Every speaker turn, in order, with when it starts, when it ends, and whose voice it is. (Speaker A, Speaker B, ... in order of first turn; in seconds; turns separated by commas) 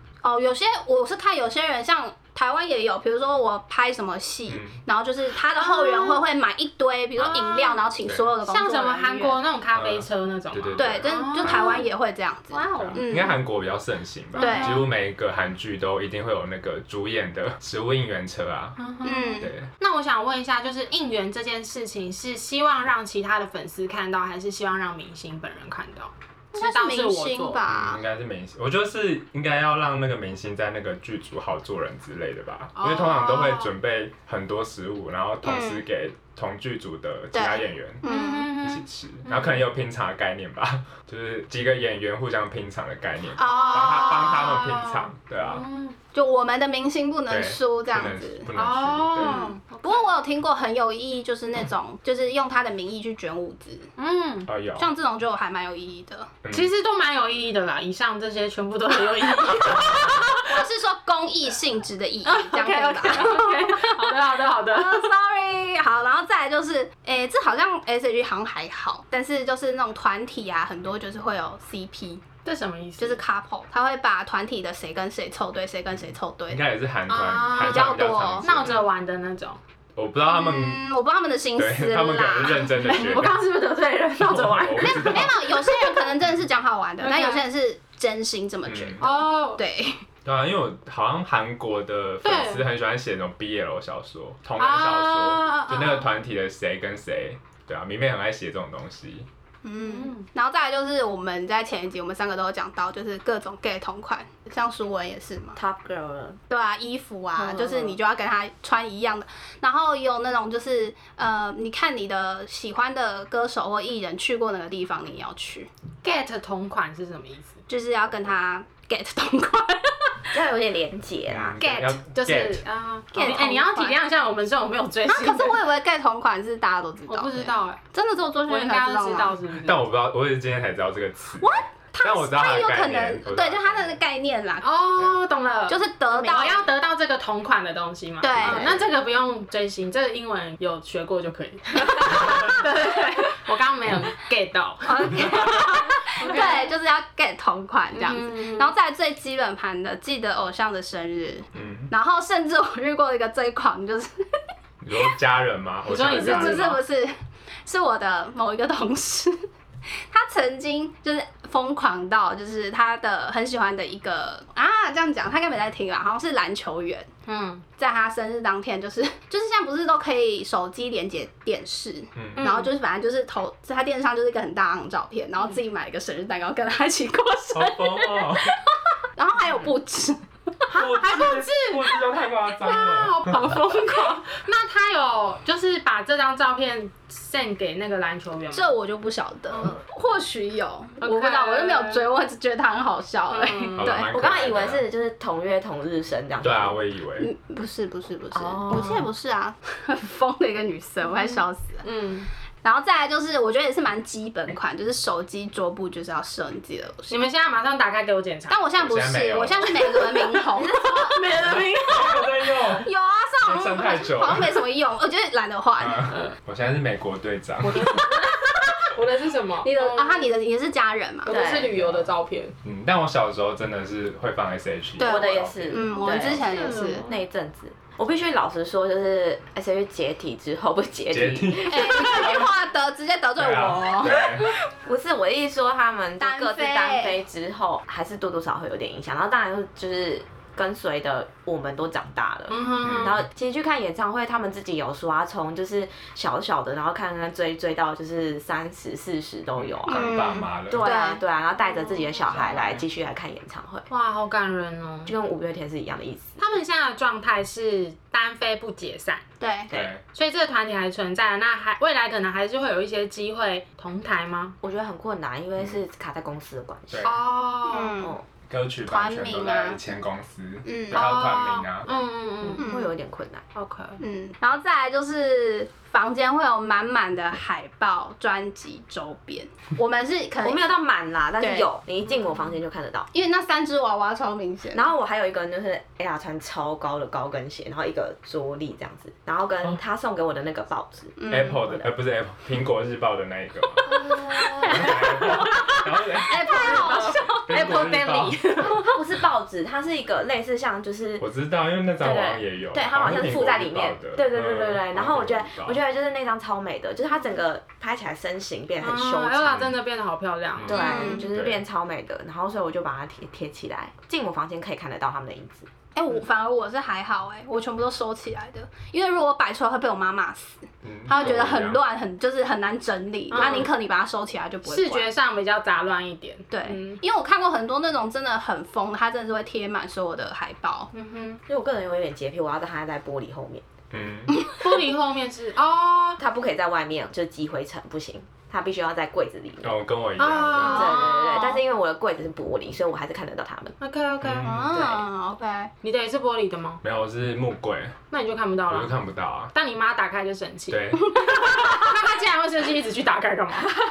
Speaker A: 0.2-9.4, Speaker B: 4.5-4.8, Speaker C: 5.5-6.2, Speaker B: 7.2-7.5, Speaker C: 7.2-7.8, Speaker C: 8.5-11.9, Speaker B: 9.8-11.9, Speaker A: 10.8-13.4, Speaker C: 12.5-13.0, Speaker B: 12.7-18.8, Speaker C: 14.3-14.9, Speaker A: 14.4-14.8, Speaker C: 18.8-27.6, Speaker A: 19.0-19.5, Speaker B: 19.4-19.7, Speaker A: 26.5-28.0, Speaker B: 27.7-45.7, Speaker C: 32.8-33.7, Speaker A: 35.4-35.9, Speaker A: 37.3-38.6, Speaker C: 38.0-39.7, Speaker A: 43.4-44.5, Speaker C: 43.4-46.0, Speaker A: 46.1-48.5, Speaker B: 47.3-49.4, Speaker C: 48.5-50.2, Speaker A: 49.2-53.9, Speaker C: 54.0-54.5, Speaker B: 54.5-54.9, Speaker A: 54.8-56.3, Speaker B: 56.4-56.7, Speaker C: 56.5-60.5, Speaker A: 60.4-64.1, Speaker C: 62.2-65.1, Speaker A: 64.7-72.2, Speaker C: 72.5-73.2, Speaker A: 73.0-76.6, Speaker B: 76.5-78.9, Speaker C: 77.1-79.6, Speaker A: 77.5-78.7, Speaker B: 80.0-80.8, Speaker A: 80.3-83.2, Speaker B: 81.6-83.5, Speaker C: 82.8-86.1, Speaker B: 84.2-85.4, Speaker A: 84.8-90.0, Speaker C: 87.0-87.4, Speaker B: 88.7-89.1, Speaker C: 89.0-89.6, Speaker B: 90.2-99.3, Speaker C: 92.2-92.7, Speaker C: 94.6-96.1, Speaker A: 99.6-105.6, Speaker C: 99.8-100.2, Speaker D: 105.5-106.4, Speaker A: 106.5-115.7, Speaker D: 107.4-108.0, Speaker C: 116.0-117.6, Speaker A: 117.7-120.2, Speaker D: 120.3-121.6, Speaker B: 121.3-122.6, Speaker C: 121.6-125.7, Speaker A: 123.1-124.0, Speaker A: 125.1-129.3, Speaker C: 127.1-127.8, Speaker C: 128.5-129.9, Speaker B: 129.5-134.0, Speaker A: 131.4-134.7, Speaker C: 134.6-146.7, Speaker A: 135.7-136.7, Speaker A: 138.2-138.8, Speaker D: 138.4-138.9, Speaker B: 142.3-142.6, Speaker A: 144.9-154.3, Speaker B: 145.2-145.5, Speaker C: 147.9-148.7, Speaker B: 151.5-151.9, Speaker B: 154.8-156.8, Speaker C: 155.9-156.7, Speaker A: 156.1-167.1, Speaker C: 167.3-167.6, Speaker A: 167.8-178.6, Speaker B: 172.2-172.5, Speaker C: 172.4-172.7, Speaker B: 177.5-178.5, Speaker A: 179.2-180.2, Speaker C: 180.7-188.7, Speaker B: 180.7-183.6, Speaker A: 188.5-194.1, Speaker C: 191.0-192.1, Speaker C: 193.3-193.9, Speaker B: 193.8-194.8, Speaker D: 194.1-196.8, Speaker B: 196.4-197.3, Speaker A: 197.2-201.8, Speaker D: 198.3-199.1, Speaker C: 201.2-202.3, Speaker A: 202.6-207.2, Speaker C: 207.1-208.6, Speaker A: 208.5-211.2, Speaker B: 208.8-209.9, Speaker C: 209.9-212.7, Speaker B: 211.4-212.9, Speaker A: 212.8-216.2, Speaker B: 213.4-214.6, Speaker B: 215.8-218.0, Speaker C: 216.1-216.4, Speaker C: 217.7-218.3, Speaker C: 218.9-220.3, Speaker A: 219.6-221.4, Speaker C: 221.2-222.6, Speaker D: 221.3-221.8, Speaker B: 221.7-222.1, Speaker B: 222.6-226.4, Speaker A: 225.0-227.1, Speaker D: 225.0-232.4, Speaker C: 226.4-227.2, Speaker B: 231.1-232.5, Speaker A: 231.6-234.2, Speaker B: 233.4-234.5, Speaker D: 234.1-253.9, Speaker A: 236.2-237.2, Speaker C: 242.5-243.2, Speaker B: 242.8-243.2, Speaker B: 249.6-250.8, Speaker A: 249.9-251.2, Speaker C: 251.7-252.6, Speaker B: 252.3-252.8, Speaker C: 253.9-255.1, Speaker D: 255.1-256.4, Speaker C: 256.4-259.2, Speaker A: 259.4-259.7, Speaker B: 259.7-260.0, Speaker C: 260.1-264.6, Speaker D: 264.6-267.1, Speaker B: 266.9-267.2, Speaker C: 267.0-268.0, Speaker A: 267.7-268.2, Speaker D: 268.0-268.2, Speaker B: 268.5-271.9, Speaker A: 268.9-269.8, Speaker A: 270.6-271.0, Speaker C: 270.9-272.6, Speaker D: 272.5-273.4, Speaker A: 272.6-272.9, Speaker C: 273.6-274.0, Speaker A: 274.0-280.6, Speaker D: 280.4-283.1, Speaker A: 281.4-281.7, Speaker A: 283.1-284.9, Speaker D: 284.7-291.9, Speaker A: 291.2-291.6, Speaker B: 291.3-293.9, Speaker D: 293.9-295.1, Speaker A: 294.5-295.0, Speaker B: 294.7-298.4, Speaker C: 295.2-295.7, Speaker A: 295.6-297.9, Speaker D: 296.4-297.9, Speaker C: 296.4-298.9, Speaker D: 298.6-301.2, Speaker B: 301.2-305.8, Speaker D: 302.0-309.7, Speaker C: 308.8-311.0, Speaker B: 310.6-311.6, Speaker D: 310.6-315.7, Speaker A: 310.7-311.3, Speaker A: 315.9-325.1, Speaker B: 320.8-321.8, Speaker C: 323.3-323.7, Speaker C: 324.7-327.0, Speaker A: 326.5-330.9, Speaker C: 330.9-331.4, Speaker D: 331.5-333.7, Speaker B: 333.9-334.5, Speaker C: 334.5-336.2, Speaker D: 336.2-339.8, Speaker B: 339.6-340.9, Speaker C: 340.2-341.6, Speaker D: 340.6-343.8, Speaker A: 340.7-341.1, Speaker C: 343.8-344.5, Speaker B: 344.2-344.9, Speaker A: 344.4-345.7, Speaker C: 345.8-346.8, Speaker B: 346.8-348.0, Speaker C: 348.1-348.9, Speaker B: 348.7-349.5, Speaker C: 349.5-353.7, Speaker B: 350.7-351.5